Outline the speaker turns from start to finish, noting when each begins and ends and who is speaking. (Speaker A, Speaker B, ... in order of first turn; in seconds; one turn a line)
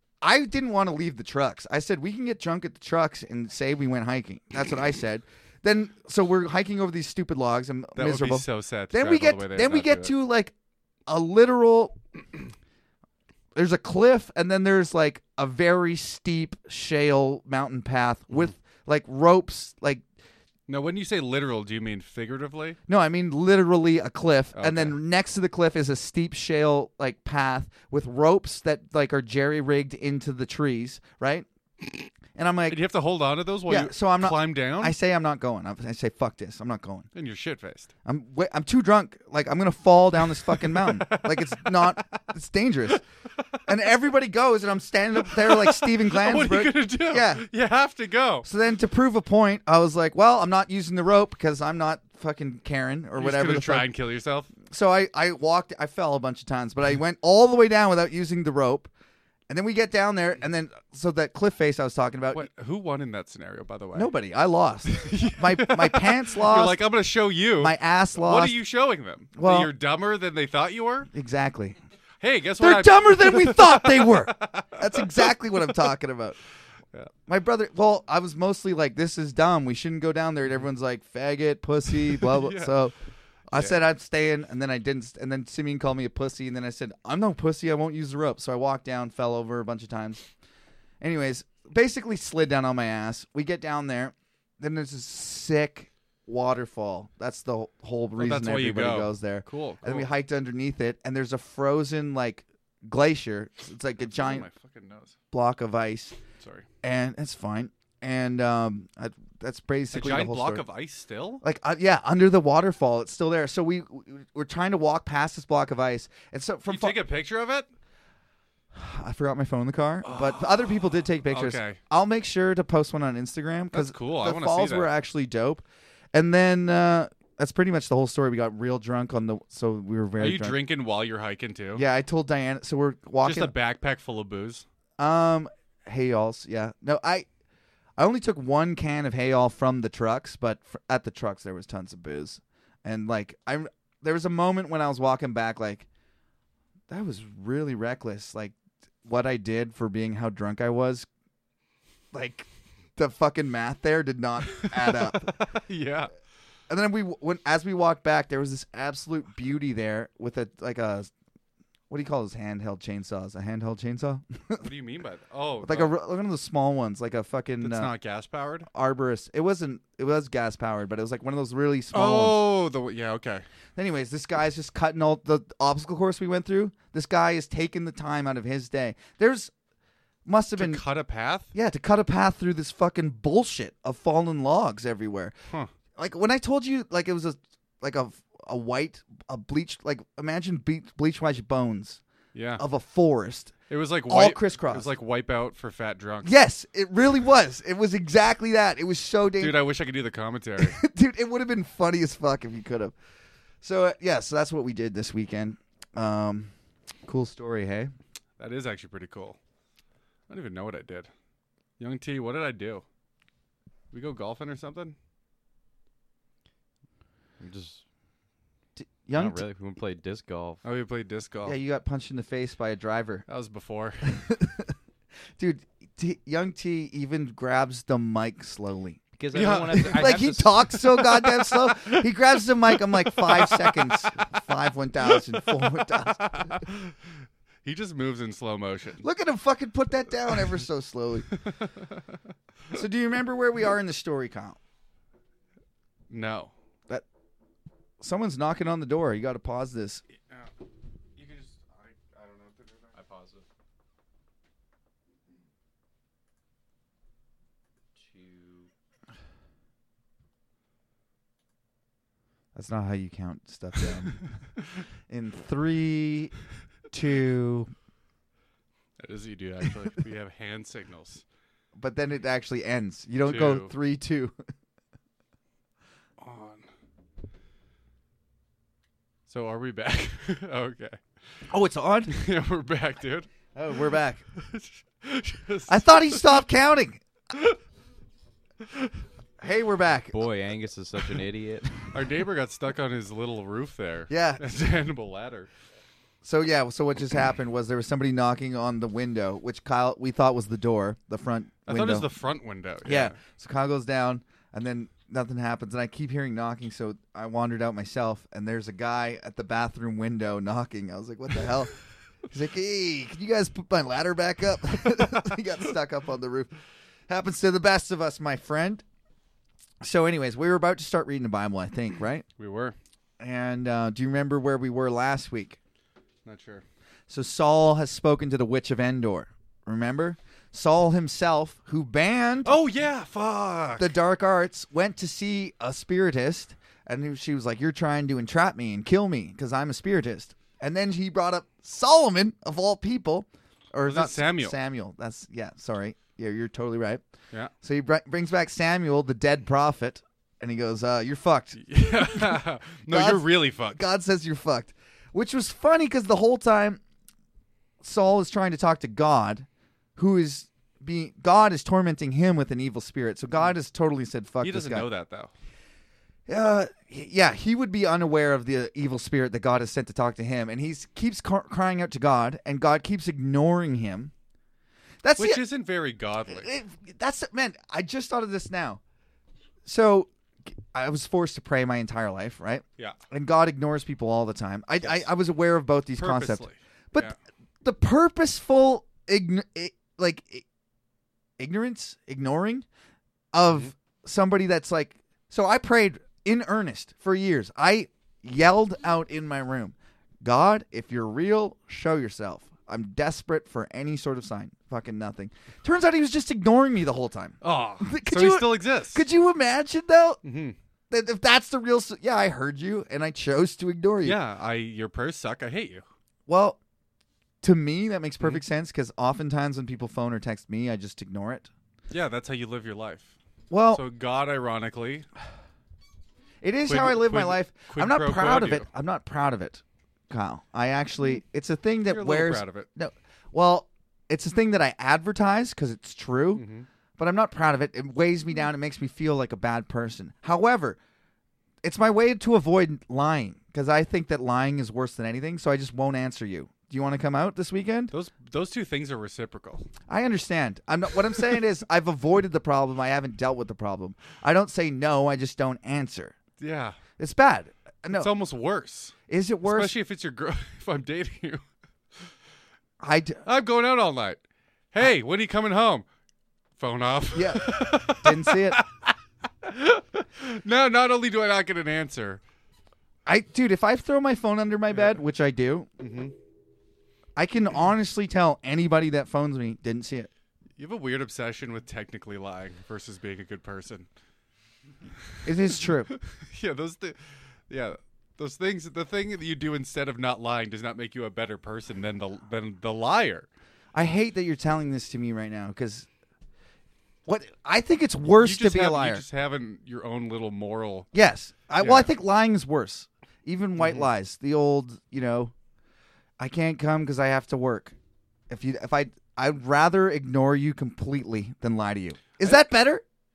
Speaker A: 0.2-10.5
Speaker B: 8.0-10.1
Speaker A: 11.1-12.0
Speaker A: 13.5-20.0
Speaker B: 20.7-22.8
Speaker A: 22.9-31.4
Speaker B: 24.6-25.0
Speaker A: 32.3-32.8
Speaker B: 32.7-35.0
Speaker A: 33.7-37.1
Speaker B: 37.1-37.9
Speaker A: 38.0-43.0
Speaker B: 40.3-42.1
Speaker A: 43.6-47.4
Speaker B: 45.2-48.5
Speaker A: 48.4-53.9
Speaker B: 53.2-54.5
Speaker A: 54.7-58.9
Speaker A: 59.5-62.5
Speaker B: 62.3-64.1
Speaker A: 63.9-66.8
Speaker B: 64.9-71.1
Speaker A: 67.6-68.5
Speaker A: 69.3-69.7
Speaker A: 71.1-71.8
Speaker B: 72.2-75.9
Speaker A: 72.6-76.4
Speaker A: 77.3-82.9
Speaker B: 82.1-82.7
Speaker A: 83.5-90.2
Speaker A: 91.0-104.5
Speaker B: 98.2-100.1
Speaker B: 104.1-105.1
Speaker A: 105.3-106.2
Speaker B: 106.4-106.7
Speaker A: 106.8-110.6
Speaker B: 109.9-111.4
Speaker A: 111.4-117.0
Speaker B: 116.7-117.7
Speaker A: 118.7-130.6
Speaker B: 120.0-121.8
Speaker B: 123.7-124.9
Speaker B: 130.2-131.8
Speaker A: 131.8-133.5
Speaker B: 133.2-134.6
Speaker A: 135.0-137.3
Speaker A: 138.0-145.8
Speaker A: 146.9-151.1
Speaker A: 152.1-155.4
Speaker B: 154.5-156.1
Speaker A: 156.7-161.1
Speaker A: 161.9-164.7
Speaker B: 164.6-165.9
Speaker A: 165.6-167.9
Speaker B: 167.6-168.7
Speaker A: 168.7-172.4
Speaker B: 171.9-173.4
Speaker A: 173.8-179.5
Speaker A: 180.2-180.8
Speaker B: 180.6-181.5
Speaker A: 181.5-185.3
Speaker A: 185.9-192.0
Speaker B: 192.3-192.6
Speaker A: 192.6-193.5
Speaker B: 193.7-196.3
Speaker A: 194.1-194.9
Speaker A: 196.2-199.6
Speaker B: 199.4-200.8
Speaker A: 200.6-202.9
Speaker A: 203.6-206.5
Speaker A: 207.1-207.9
Speaker B: 208.4-209.4
Speaker B: 210.3-211.1
Speaker B: 211.8-212.8
Speaker B: 213.9-214.9
Speaker C: 217.4-217.8
Speaker A: 218.8-219.4
Speaker C: 219.1-220.6
Speaker B: 220.6-221.6
Speaker A: 221.4-223.2
Speaker B: 223.3-224.2
Speaker A: 224.1-224.7
Speaker A: 225.4-229.0
Speaker C: 229.2-230.5
Speaker B: 229.3-232.0
Speaker A: 229.7-236.5
Speaker B: 233.1-234.4
Speaker B: 235.1-236.9
Speaker B: 237.6-239.0
Speaker A: 239.0-241.3
Speaker B: 241.3-241.6
Speaker A: 242.7-244.6
Speaker B: 246.1-246.5
Speaker A: 248.0-250.0
Speaker B: 251.2-252.9
Speaker C: 252.9-253.4
Speaker C: 257.9-258.7
Speaker A: 262.5-264.2
Speaker A: 265.1-266.3
Speaker A: 266.9-267.7
Speaker B: 269.0-271.2
Speaker A: 271.8-274.3
Speaker B: 273.2-273.7
Speaker B: 276.2-276.7
Speaker B: 279.3-281.0
Speaker A: 281.5-282.1
Speaker B: 282.1-283.3
Speaker A: 283.5-284.2
Speaker B: 284.3-286.4
Speaker A: 285.7-287.0
Speaker A: 289.4-290.1
Speaker C: 290.1-292.1
Speaker B: 291.9-295.5
Speaker A: 294.1-294.4
Speaker A: 296.2-302.1
Speaker B: 301.7-303.1
Speaker A: 302.8-311.7
Speaker A: 312.3-316.5
Speaker A: 317.1-318.8
Speaker A: 319.8-322.2
Speaker B: 322.4-322.8
Speaker A: 323.2-325.6
Speaker B: 326.2-326.6
Speaker A: 327.1-332.6
Speaker B: 332.4-333.9
Speaker A: 333.8-347.0
Speaker B: 343.9-344.5
Speaker A: 347.6-356.8
Speaker B: 351.6-353.8
Speaker A: 357.8-364.9
Speaker B: 364.4-365.3
Speaker A: 366.3-374.1
Speaker A: 375.0-375.4
Speaker B: 375.2-376.5
Speaker A: 376.3-378.8
Speaker A: 379.6-390.4
Speaker B: 386.0-387.1
Speaker A: 391.4-392.6
Speaker A: 393.3-410.2
Speaker B: 407.4-409.1
Speaker B: 410.2-410.6
Speaker A: 410.9-414.2
Speaker B: 414.0-415.8
Speaker A: 416.3-416.6
Speaker A: 417.4-421.5
Speaker B: 421.9-423.1
Speaker A: 423.5-423.8
Speaker B: 423.7-425.1
Speaker A: 426.4-436.4
Speaker B: 426.7-428.7
Speaker B: 431.9-432.7
Speaker B: 436.4-436.6
Speaker A: 437.0-440.8
Speaker A: 441.6-447.9
Speaker B: 447.9-449.7
Speaker A: 449.9-456.2
Speaker B: 456.4-456.8
Speaker A: 457.0-458.1
Speaker B: 457.9-461.4
Speaker A: 459.1-459.7
Speaker A: 462.8-463.2
Speaker B: 463.2-464.2
Speaker B: 464.7-465.8
Speaker B: 466.6-472.2
Speaker A: 467.1-468.6
Speaker A: 473.1-475.7
Speaker B: 475.8-476.1
Speaker A: 477.1-480.1
Speaker B: 480.6-483.9
Speaker B: 485.2-487.0
Speaker A: 485.2-485.9
Speaker B: 487.5-493.3
Speaker A: 493.7-495.9
Speaker A: 497.1-499.0
Speaker B: 498.2-500.9
Speaker A: 500.9-505.3
Speaker B: 501.6-501.9
Speaker B: 503.6-503.9
Speaker A: 506.2-507.7
Speaker A: 508.3-512.8